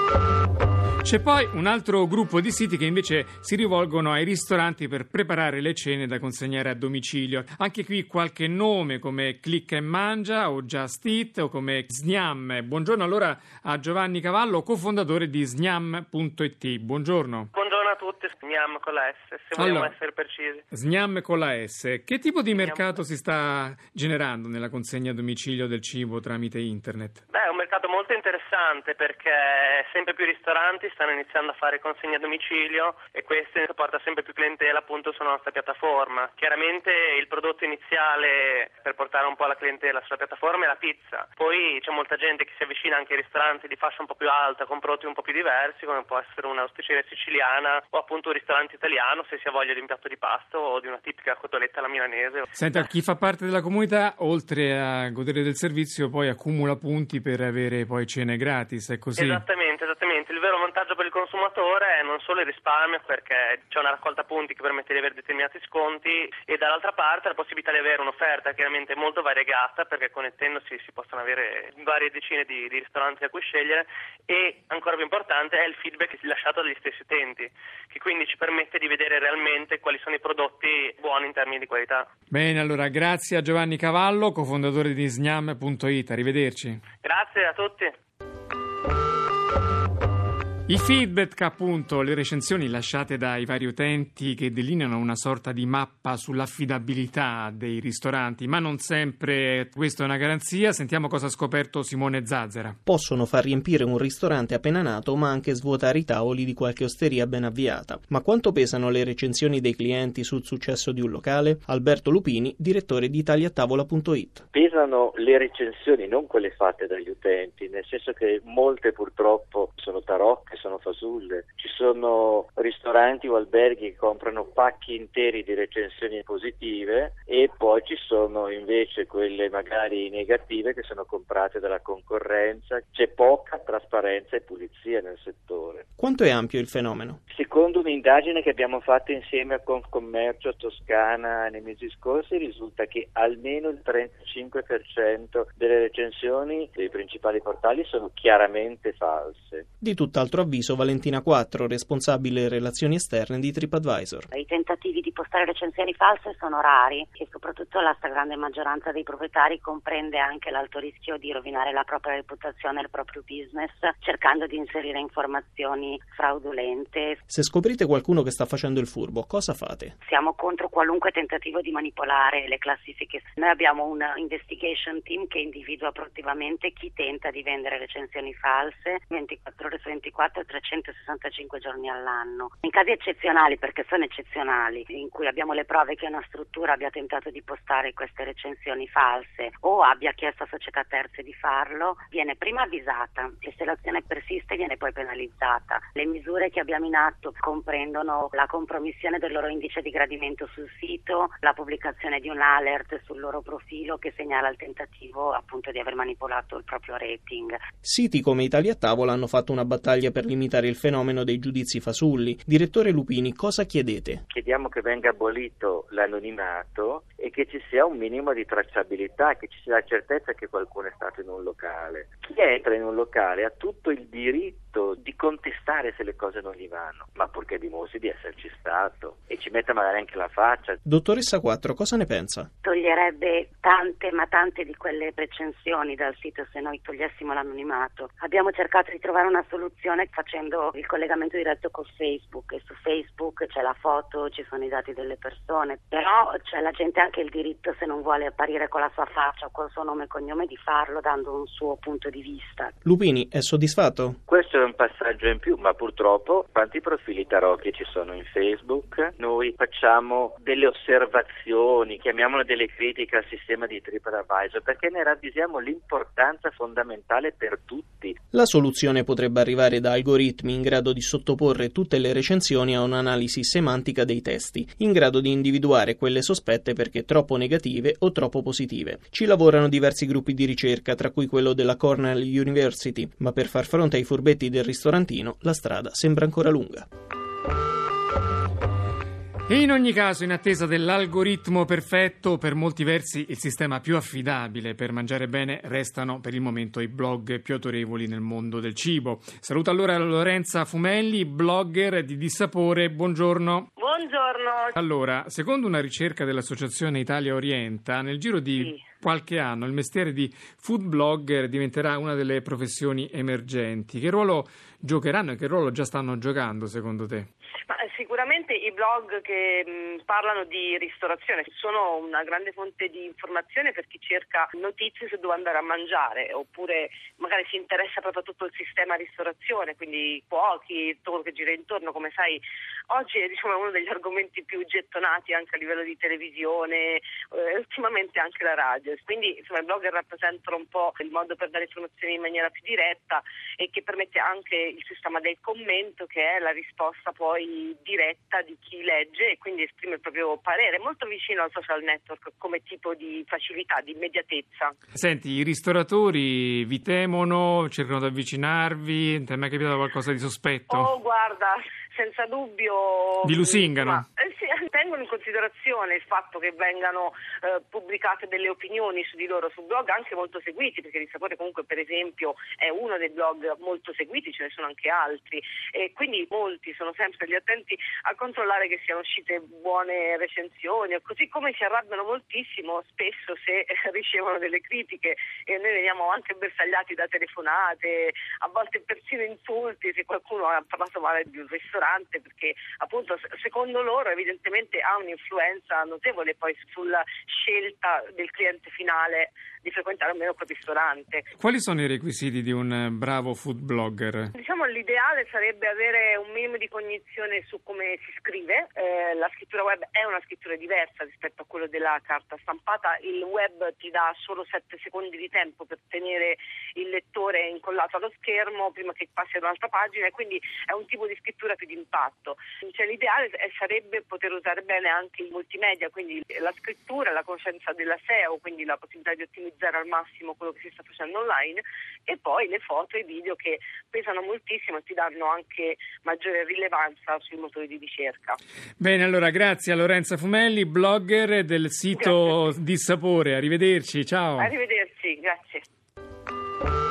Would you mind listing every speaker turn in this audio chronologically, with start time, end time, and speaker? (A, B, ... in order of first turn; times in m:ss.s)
0:01.0-0:17.5 A
0:17.5-0:20.6 B
0:19.6-0:20.0 A
0:20.7-0:27.2 A
0:22.5-0:22.9 B
0:27.3-0:52.8 B
0:52.6-0:59.4 A
0:59.2-1:22.1 B
1:22.3-1:26.8 A
1:27.0-1:27.9 B
1:30.7-1:42.8 A
1:42.9-1:54.4 C
1:54.5-2:15.8 D
2:16.0-2:17.2 C
2:17.3-2:29.6 D
2:29.8-2:34.3 C
2:34.3-2:47.2 E
2:47.3-2:49.9 C
2:50.0-3:27.6 E
3:27.8-3:34.2 C
3:34.3-3:50.8 D
3:50.8-3:52.5 C
3:52.6-4:12.7 E
4:12.8-4:14.2 C
4:14.3-4:28.2 D
4:28.3-4:46.9 C
4:49.5-5:03.7 A
5:03.8-5:04.7 F
5:04.8-5:17.3 A
5:08.6-5:08.8 F
5:17.7-5:54.8 F
5:55.0-6:00.9 A
6:00.7-6:41.2 F
6:03.2-6:04.0 A
6:41.4-6:44.3 A
6:44.4-7:18.4 F
7:18.8-7:24.5 A
7:21.9-7:22.3 F
7:24.4-7:25.6 F